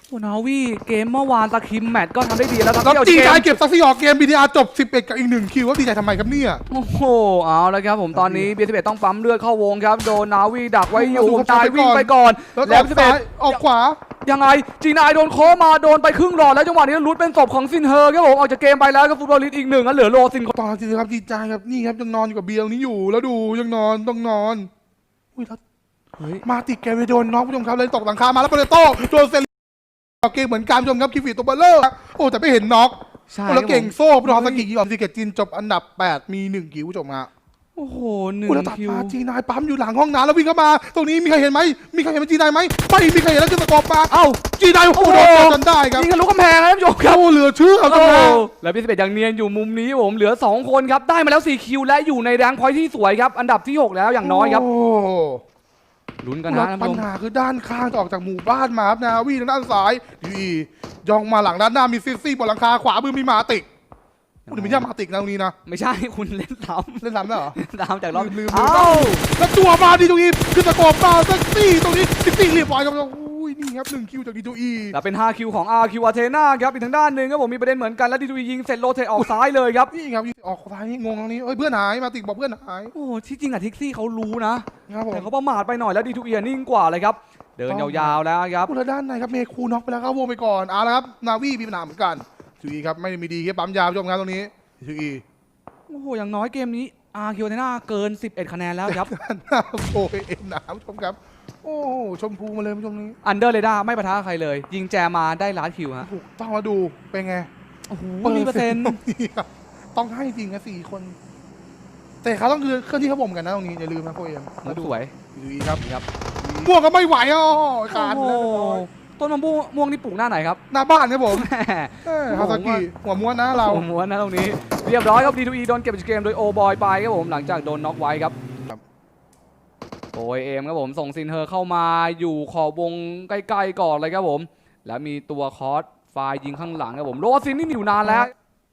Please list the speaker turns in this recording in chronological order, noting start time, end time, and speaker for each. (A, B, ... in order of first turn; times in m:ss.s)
0:00.1-0:03.6 A
0:02.8-0:06.6 B
0:06.7-0:13.6 A
0:08.1-0:08.5 B
0:10.9-0:14.0 B
0:14.2-0:20.5 A
0:20.5-0:24.7 B
0:25.4-0:25.6 B
0:26.2-0:26.4 A
0:26.4-0:29.5 B
0:30.2-0:37.3 B
0:33.3-0:34.7 A
0:37.8-0:39.2 A
0:38.5-0:46.1 B
0:44.1-0:44.4 A
0:44.9-0:47.2 A
0:47.0-0:48.5 B
0:47.8-0:54.6 A
0:54.2-0:55.4 B
0:56.2-0:57.1 A
0:56.5-1:03.7 B
1:04.5-1:04.9 A
1:04.5-1:05.6 B
1:05.7-1:09.2 A
1:07.0-1:07.6 B
1:08.1-1:15.0 B
1:14.9-1:19.9 A
1:19.9-1:22.9 B
1:22.9-1:28.7 A
1:24.9-1:25.3 B
1:27.7-1:35.2 B
1:35.9-1:39.1 A
1:38.9-1:43.2 B
1:43.2-1:46.1 A
1:46.0-1:47.5 B
1:47.9-1:49.0 A
1:48.2-1:51.2 B
1:52.2-1:55.8 B
1:54.6-1:55.1 A
1:56.4-1:58.8 B
1:57.9-2:00.6 A
2:00.7-2:01.5 B
2:01.3-2:02.9 A
2:02.0-2:03.9 B
2:03.5-2:08.4 A
2:10.1-2:18.3 A
2:18.0-2:18.3 B